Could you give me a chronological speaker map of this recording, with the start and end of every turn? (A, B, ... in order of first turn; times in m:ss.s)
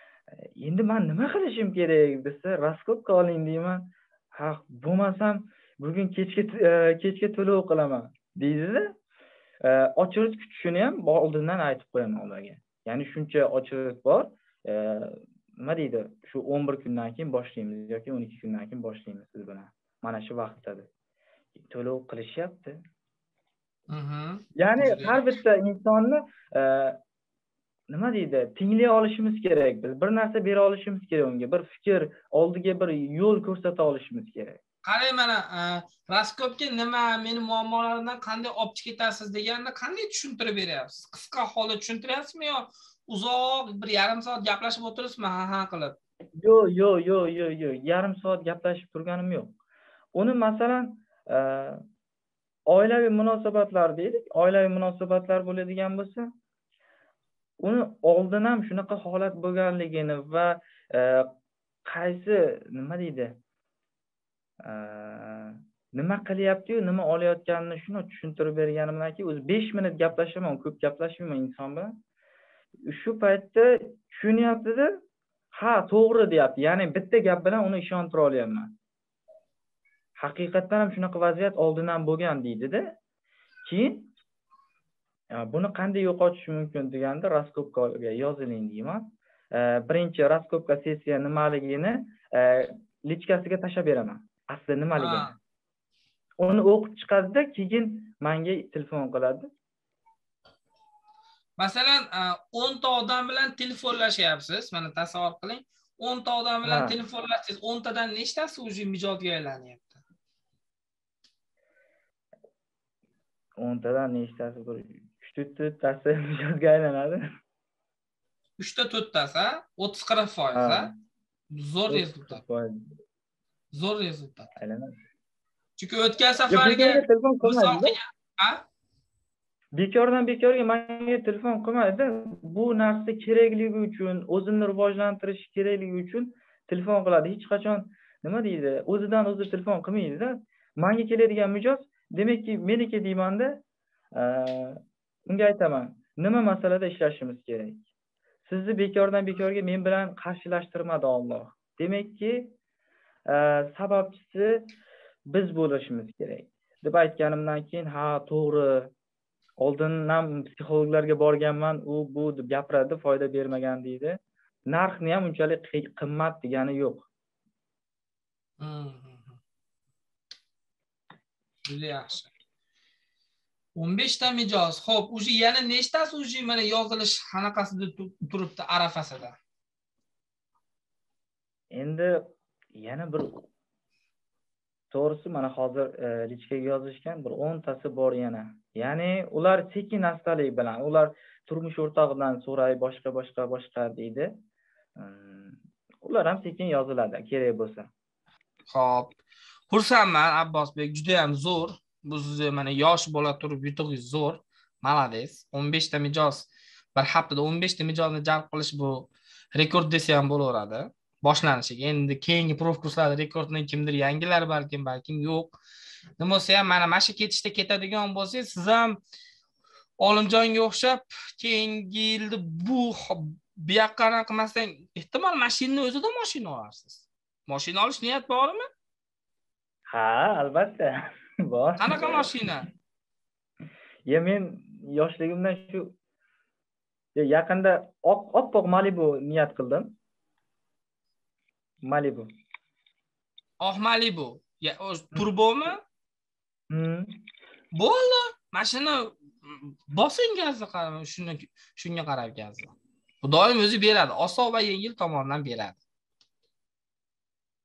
0:00.4-0:09.0 A
0:09.6-0:20.9 A
0:21.6-0:22.8 A
0:23.9-0:25.2 B
0:24.6-0:27.0 A
0:27.9-0:34.6 A
0:34.8-0:46.0 B
0:46.4-0:49.6 A
0:50.1-0:51.8 A
0:52.7-0:56.3 A
0:57.6-1:01.3 A
1:01.9-1:03.4 A
1:04.6-1:11.9 A
1:12.9-1:14.9 A
1:15.5-1:18.7 A
1:20.2-1:22.8 A
1:23.6-1:24.1 A
1:25.3-1:35.3 A
1:35.0-1:35.3 B
1:36.4-1:39.5 A
1:41.6-1:50.0 B
1:46.6-1:47.0 A
1:53.6-1:57.2 A
1:58.6-2:00.9 B
2:00.5-2:00.9 A
2:01.5-2:02.4 B
2:01.9-2:02.9 A
2:03.7-2:04.5 B
2:04.6-2:04.9 A
2:05.8-2:08.6 B
2:06.5-2:08.0 A
2:09.7-2:23.6 A
2:24.1-2:27.8 A
2:28.4-2:32.5 A
2:33.3-2:34.7 A
2:35.3-2:38.9 A
2:39.6-2:47.1 A
2:48.6-2:49.4 B
2:51.6-2:52.3 B
2:53.8-2:59.4 B
3:01.7-3:02.2 A
3:02.8-3:03.4 A
3:04.9-3:14.3 A
3:15.0-3:17.9 A
3:18.7-3:19.2 B
3:19.7-3:35.6 B
3:36.2-3:39.0 B
3:40.0-3:48.6 B
3:49.9-3:52.3 A
3:51.8-3:52.6 B
3:54.1-3:55.9 A
3:57.2-4:00.0 A
4:01.8-4:02.3 A
4:03.6-4:05.8 B
4:06.7-4:07.1 A
4:07.7-4:15.8 B